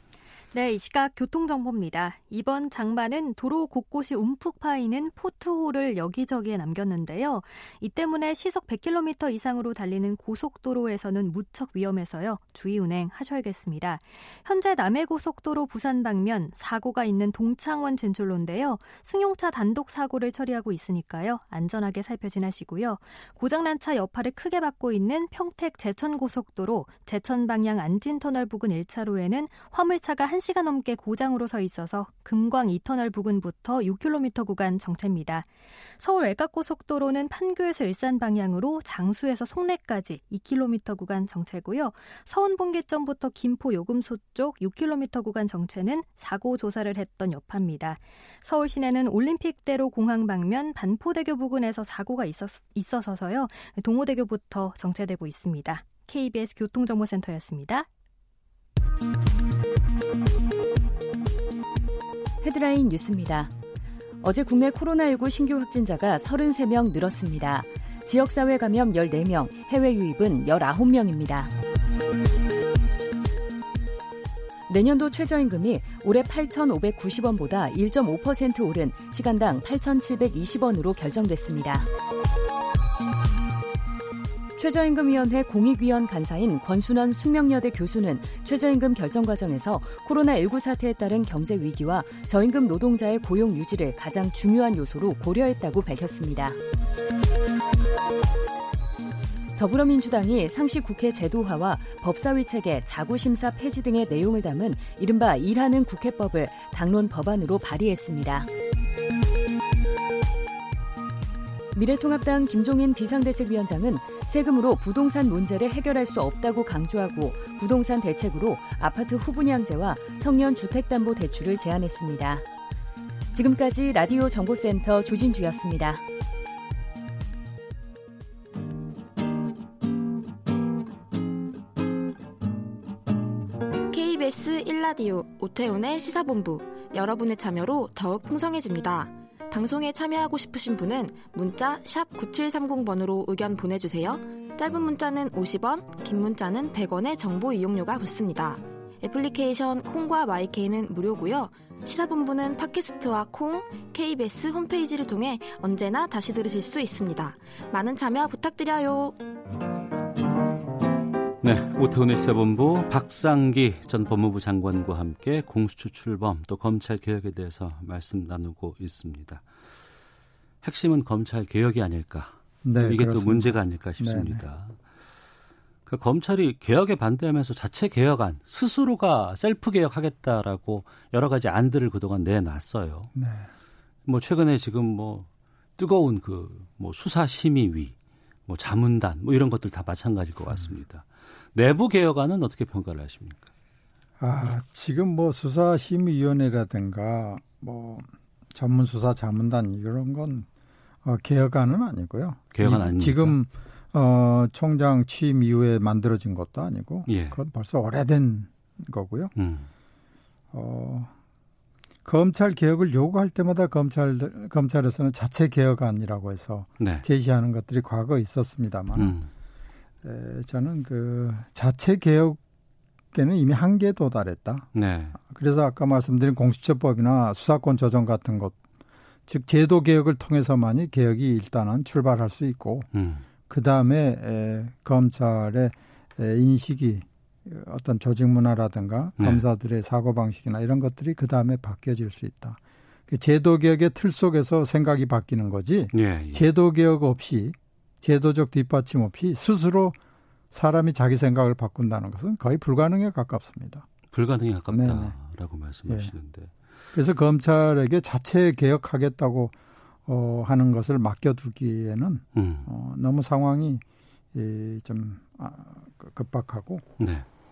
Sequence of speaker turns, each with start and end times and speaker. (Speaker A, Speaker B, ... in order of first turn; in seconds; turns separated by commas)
Speaker A: 0.5-35.5, Speaker A: 36.0-57.9, Speaker B: 62.4-63.5, Speaker B: 64.2-71.5, Speaker B: 74.7-81.9, Speaker B: 84.6-96.6, Speaker B: 99.6-108.5, Speaker B: 111.7-122.4, Speaker B: 123.3-126.0, Speaker C: 133.9-159.2, Speaker D: 161.4-169.4, Speaker D: 170.6-174.8, Speaker E: 172.6-174.4, Speaker D: 175.9-183.1, Speaker E: 183.2-183.5, Speaker D: 184.1-187.9, Speaker D: 188.5-193.5, Speaker E: 194.2-200.5, Speaker E: 201.0-209.3, Speaker D: 202.5-203.4, Speaker D: 207.1-207.4, Speaker D: 209.4-209.7, Speaker E: 210.5-211.1, Speaker E: 212.1-219.2, Speaker D: 216.8-217.1, Speaker D: 219.0-219.3, Speaker E: 220.0-222.4, Speaker E: 223.1-228.6, Speaker D: 224.8-225.2, Speaker E: 229.3-232.9, Speaker D: 232.9-233.2, Speaker E: 233.5-250.0, Speaker D: 245.9-246.4, Speaker E: 250.5-253.9, Speaker D: 254.1-256.5, Speaker E: 254.7-255.2, Speaker E: 256.9-259.5, Speaker E: 260.1-263.8, Speaker D: 262.4-262.7, Speaker E: 264.3-266.8, Speaker D: 267.0-267.3